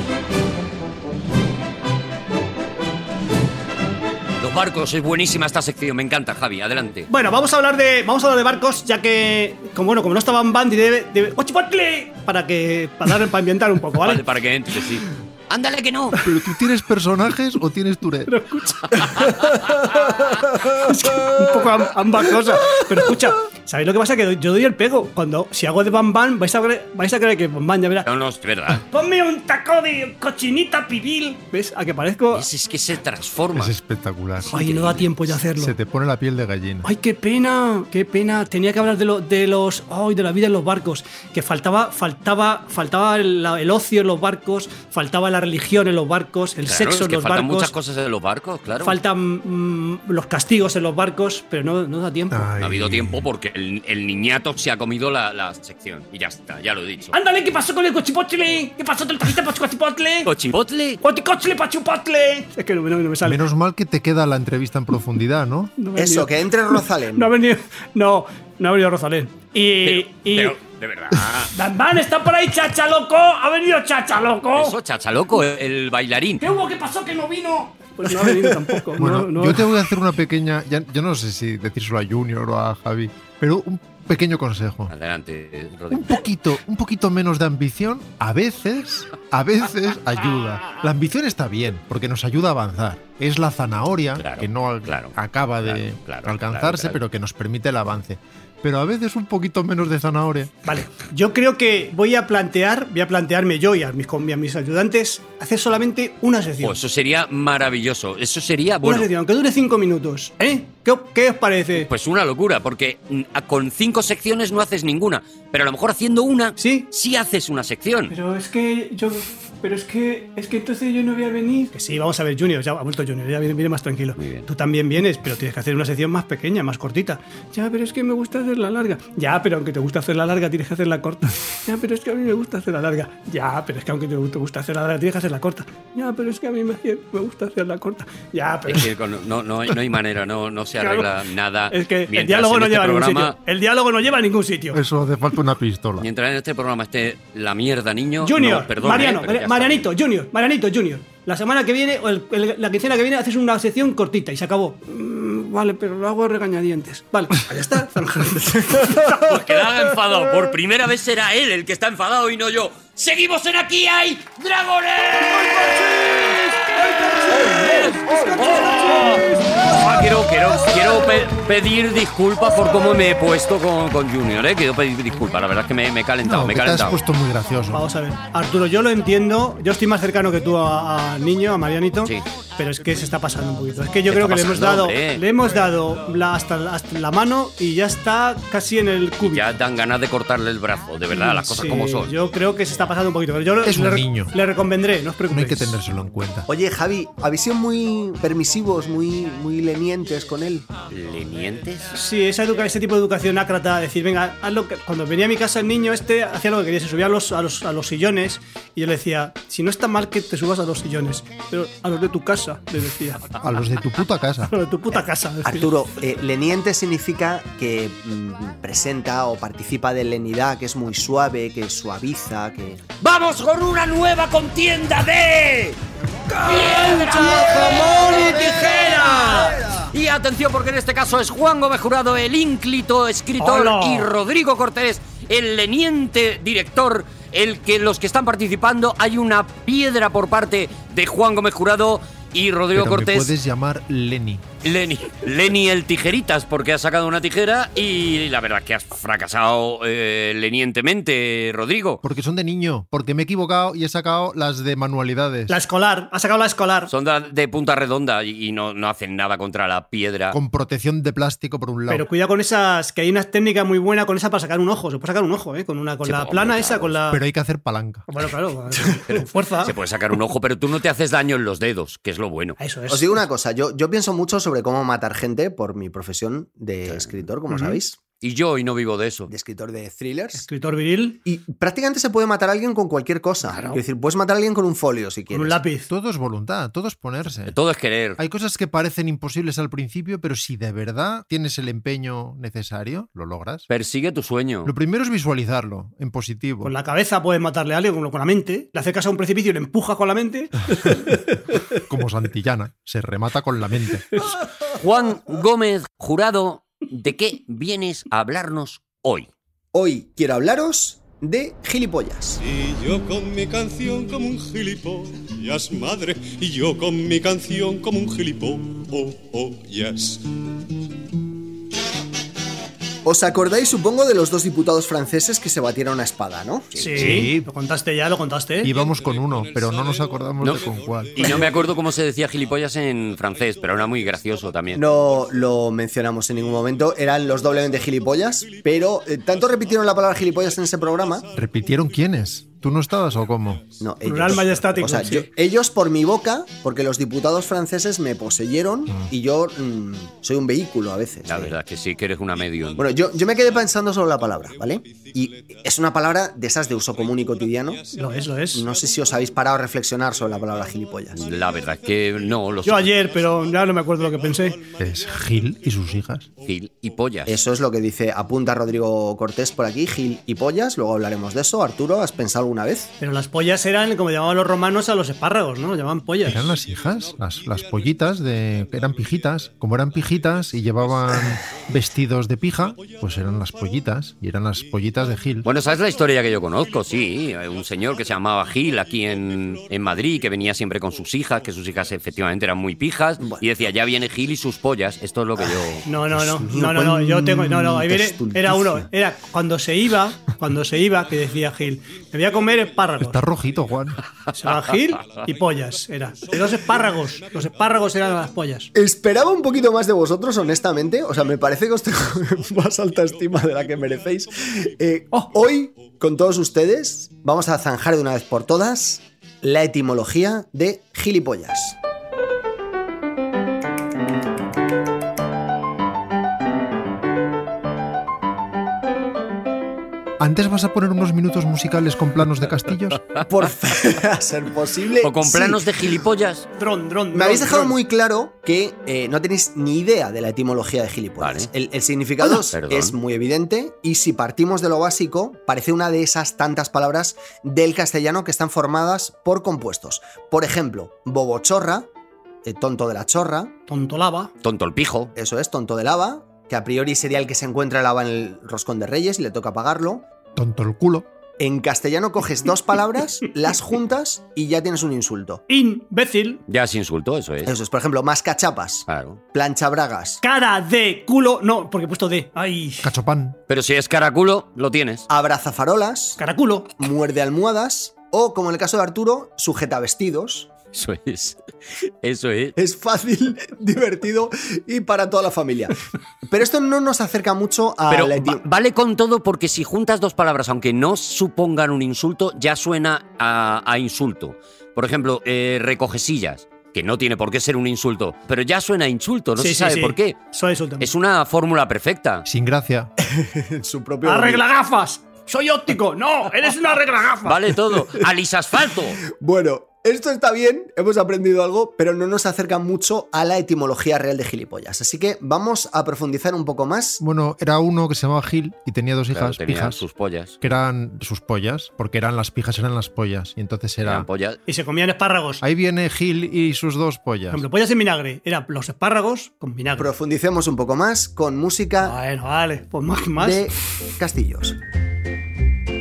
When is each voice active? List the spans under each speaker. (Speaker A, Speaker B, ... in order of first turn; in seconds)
Speaker A: 4.4-7.1, 14.0-16.2, 19.2-19.8, 28.1-28.8, 32.3-33.7, 34.5-35.4, 46.6-49.0, 52.6-57.1, 60.3-61.0, 69.8-71.5, 74.6-76.4, 84.9-86.2, 94.2-97.0, 106.6-109.1, 111.8-118.1, 124.2-124.5, 138.7-143.3, 146.0-149.9, 158.9-177.0, 184.1-185.2, 189.2-192.1, 200.9-201.9, 223.0-225.8, 226.3-243.3, 244.6-252.0, 256.9-260.4, 266.1-266.9, 269.1-272.6, 278.2-279.3, 283.5-283.8, 287.5-288.2, 293.7-294.7, 304.7-309.3, 326.7-327.2, 331.2-334.9, 351.3-352.8, 361.1-363.0, 366.4-367.4, 385.4-395.9, 435.0-436.5, 441.2-441.5, 442.3-442.9, 454.4-455.1, 466.5-467.5, 468.9-469.2, 473.5-475.1, 480.7-482.6, 487.9-500.2, 500.8-502.2, 507.3-509.0, 519.1-520.4, 523.8-524.4
Speaker B: 7.1-14.2, 18.3-28.1, 28.8-32.5, 34.5-35.7, 36.8-47.7, 48.8-52.5, 57.1-60.3, 61.0-63.5, 65.8-70.6, 71.5-74.8, 76.4-79.7, 100.7-106.8, 108.8-111.9, 116.6-116.9, 118.1-138.9, 140.8-141.1, 141.7-144.8, 148.2-159.3, 167.5-168.3, 168.9-169.6, 177.7-189.4, 191.1-195.8, 201.9-213.3, 214.5-215.7, 233.4-234.1, 255.5-256.9, 261.9-267.2, 268.1-269.8, 272.6-273.2, 277.5-277.8, 280.3-281.2, 285.3-285.9, 296.6-301.2, 326.8-328.7, 344.0-345.3, 357.9-358.6, 362.6-364.6, 373.0-376.5, 395.9-403.3, 404.3-408.7, 436.6-437.8, 453.7-454.3, 465.5-466.4, 470.2-472.9, 476.2-476.7, 499.4-500.9, 504.0-507.4, 524.5-525.4, 527.3-529.9, 531.8-533.5
Speaker C: 16.2-18.3, 33.5-34.6, 35.6-36.9, 52.3-53.3, 63.2-65.7, 79.0-84.9, 85.9-100.5, 144.7-146.1, 176.2-177.8, 193.7-194.3, 195.3-196.5, 213.4-214.5, 242.7-244.4, 252.0-255.6, 260.3-262.1, 267.1-268.1, 285.9-287.6, 288.2-293.6, 294.6-296.7, 301.7-304.3, 327.0-327.5, 328.6-331.4, 341.3-343.6, 364.8-366.3, 376.2-385.5, 403.0-404.0, 430.2-433.0, 460.4-461.1, 472.8-473.4, 502.2-502.9, 517.0-519.8, 520.4-524.1, 525.4-527.4
Speaker D: 66.0-67.3, 196.5-200.7, 215.0-222.8, 272.9-278.0, 279.3-280.4, 281.2-285.6, 309.7-312.4, 323.1-326.7, 334.7-341.2, 343.8-351.6, 352.8-357.8, 358.5-361.2, 367.3-372.9, 395.4-398.9, 408.8-421.8, 433.2-436.0, 437.1-451.9, 452.4-453.6, 455.1-460.1, 461.4-465.4, 467.5-470.2, 475.1-476.2, 476.8-480.5, 482.6-488.4, 503.0-504.4, 509.1-517.0, 529.8-532.0, 533.2-534.6
Speaker E: 312.4-320.3, 328.6-335.7, 336.3-344.0, 352.3-367.0, 376.2-392.5, 400.8-408.5, 409.1-409.5, 410.4-414.9, 415.5-416.0